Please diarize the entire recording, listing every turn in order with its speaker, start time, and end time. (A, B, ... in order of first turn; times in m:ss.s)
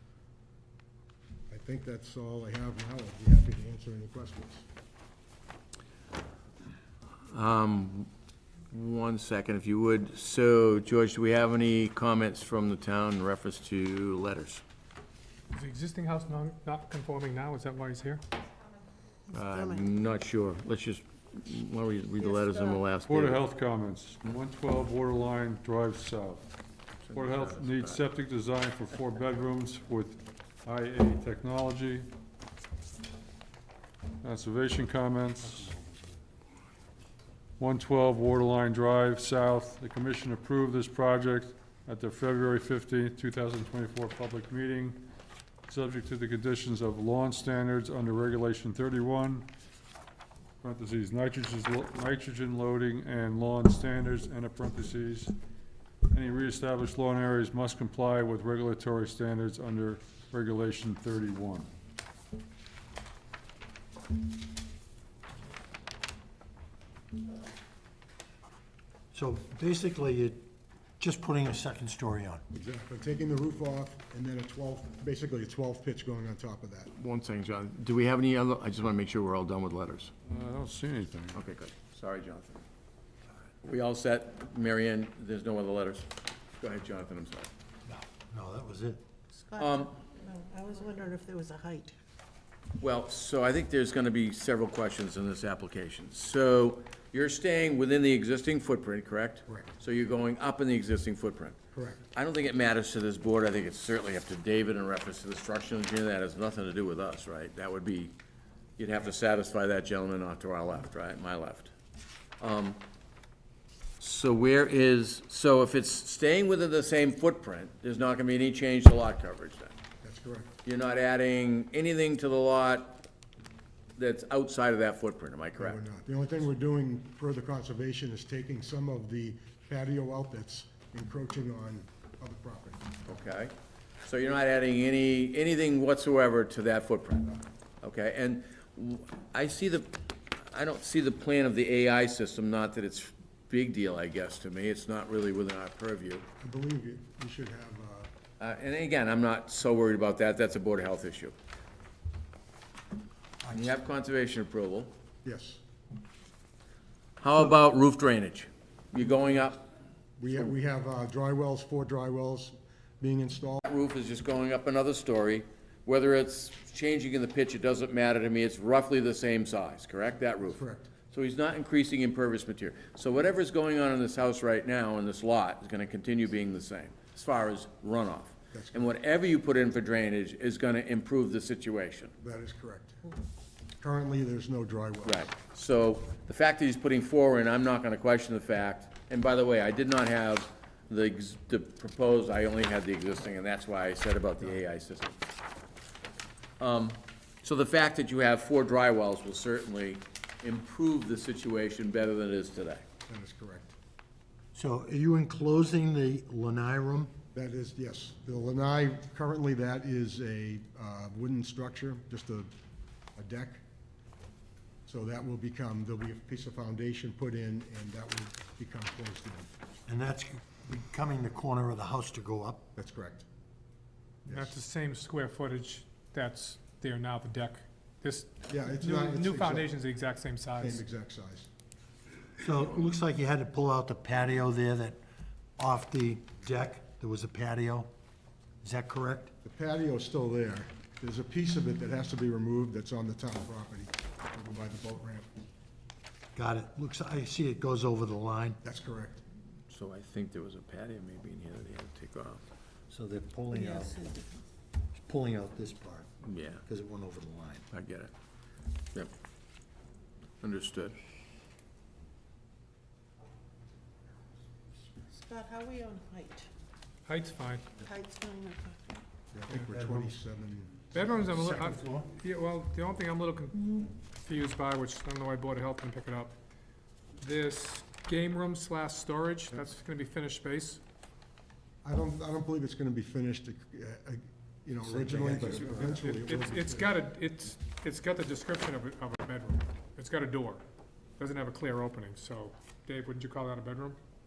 0:01.5-0:04.6 A
0:07.3-0:08.1 B
0:08.7-0:14.6 B
0:15.5-0:18.2 C
0:19.3-0:19.8 D
0:19.3-0:23.4 B
0:22.2-0:22.8 D
0:23.0-0:26.6 E
0:27.0-0:28.0 B
0:27.1-0:32.1 E
0:34.2-0:35.7 E
0:37.6-0:45.0 E
0:45.7-0:49.5 E
0:50.6-0:55.3 E
0:56.1-1:01.7 E
1:09.1-1:10.4 F
1:11.0-1:12.4 F
1:12.5-1:16.9 A
1:16.9-1:20.1 B
1:20.3-1:21.4 E
1:21.3-1:22.6 B
1:23.6-1:27.5 B
1:27.8-1:29.0 F
1:29.3-1:32.0 D
1:29.6-1:30.0 B
1:32.8-1:41.6 B
1:41.7-1:42.0 A
1:42.1-1:48.1 B
1:48.8-1:51.7 B
1:52.4-1:52.8 B
1:54.0-1:59.7 B
2:00.0-2:00.5 A
2:00.6-2:03.0 B
2:04.0-2:05.8 B
2:05.6-2:13.0 A
2:13.1-2:13.5 B
2:14.0-2:26.2 B
2:26.4-2:28.1 A
2:28.4-2:31.3 B
2:33.4-2:33.8 F
2:33.5-2:34.9 B
2:35.2-2:35.6 A
2:37.2-2:39.6 B
2:40.2-2:43.6 A
2:43.6-3:02.1 B
2:50.5-2:50.9 A
2:58.5-2:58.9 A
3:02.2-3:03.0 A
3:03.8-3:05.3 A
3:05.0-3:15.2 B
3:16.6-3:22.8 B
3:23.1-3:23.7 A
3:24.5-3:27.1 F
3:27.3-3:32.5 A
3:33.2-3:33.6 A
3:34.8-3:39.5 A
3:39.9-3:42.6 F
3:42.7-3:43.2 A
3:44.2-3:44.6 A
3:44.3-3:50.8 C
3:48.5-3:49.7 A
3:50.6-3:51.5 A
3:52.4-3:55.0 F
3:55.6-3:57.9 F
3:58.6-3:59.3 F
3:59.4-4:05.3 A
4:06.3-4:08.6 F
4:08.6-4:09.2 A
4:09.7-4:12.4 B
4:12.9-4:14.0 F
4:13.5-4:14.3 D
4:14.9-4:16.1 F
4:16.2-4:16.6 B
4:16.6-4:17.6 F
4:17.7-4:18.1 B
4:20.4-4:21.0 B
4:25.1-4:26.5 D
4:27.0-4:27.7 C
4:27.8-4:29.0 D
4:29.3-4:31.0 A
4:29.5-4:30.1 F
4:30.9-4:36.4 C
4:31.0-4:32.1 F
4:37.2-4:40.8 C
4:41.8-4:46.9 A
4:44.8-4:46.0 F
4:45.9-4:50.6 C
4:51.2-4:54.0 C